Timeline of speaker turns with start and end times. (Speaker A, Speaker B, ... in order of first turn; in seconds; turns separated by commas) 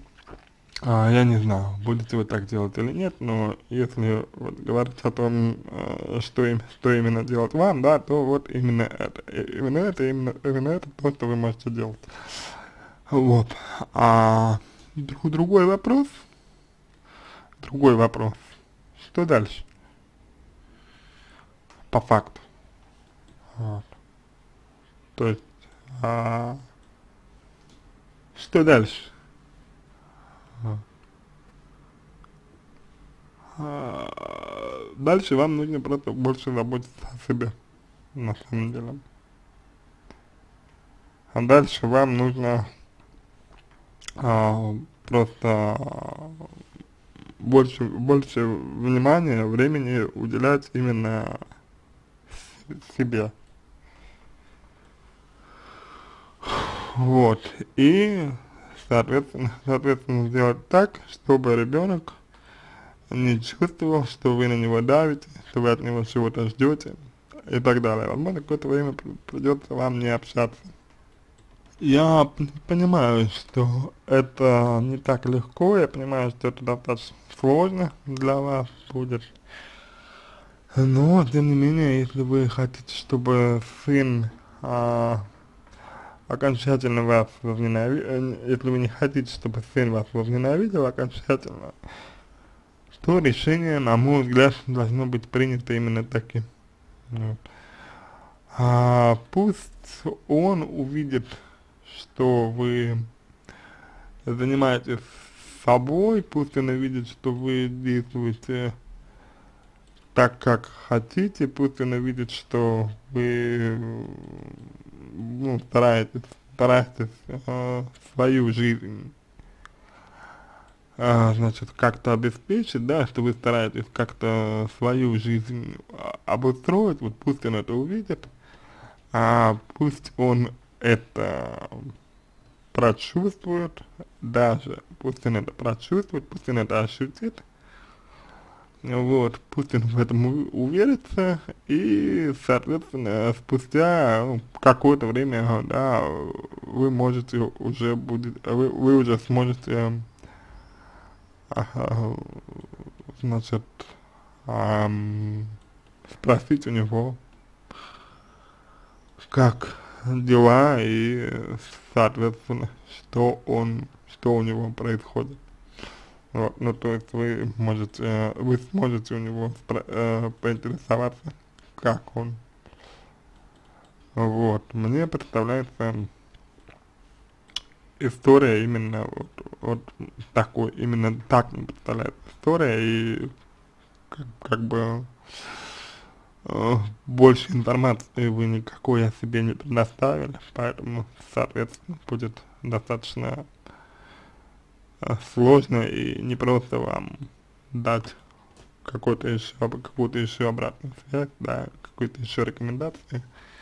Speaker A: 0.8-12.5, Speaker A: 13.1-16.2, Speaker A: 17.6-19.7, Speaker A: 21.9-22.4, Speaker A: 23.6-23.9, Speaker A: 25.1-26.6, Speaker A: 28.4-29.1, Speaker A: 33.6-37.5, Speaker A: 38.1-39.0, Speaker A: 41.3-42.7, Speaker A: 44.2-46.5, Speaker A: 47.4-51.4, Speaker A: 52.3-53.3, Speaker A: 56.4-62.2, Speaker A: 63.1-70.7, Speaker A: 71.8-79.3, Speaker A: 80.7-85.3, Speaker A: 86.3-91.8, Speaker A: 93.0-96.5, Speaker A: 97.1-97.4, Speaker A: 98.5-103.1, Speaker A: 104.2-108.8, Speaker A: 110.1-119.1, Speaker A: 121.0-128.3, Speaker A: 129.1-131.9, Speaker A: 132.7-137.4, Speaker A: 138.8-150.1, Speaker A: 151.5-153.9, Speaker A: 154.5-155.6, Speaker A: 156.1-157.2, Speaker A: 159.2-165.4, Speaker A: 166.3-172.4, Speaker A: 174.2-176.1, Speaker A: 178.0-183.3, Speaker A: 184.1-185.8, Speaker A: 186.4-193.5, Speaker A: 195.0-198.2, Speaker A: 198.8-203.3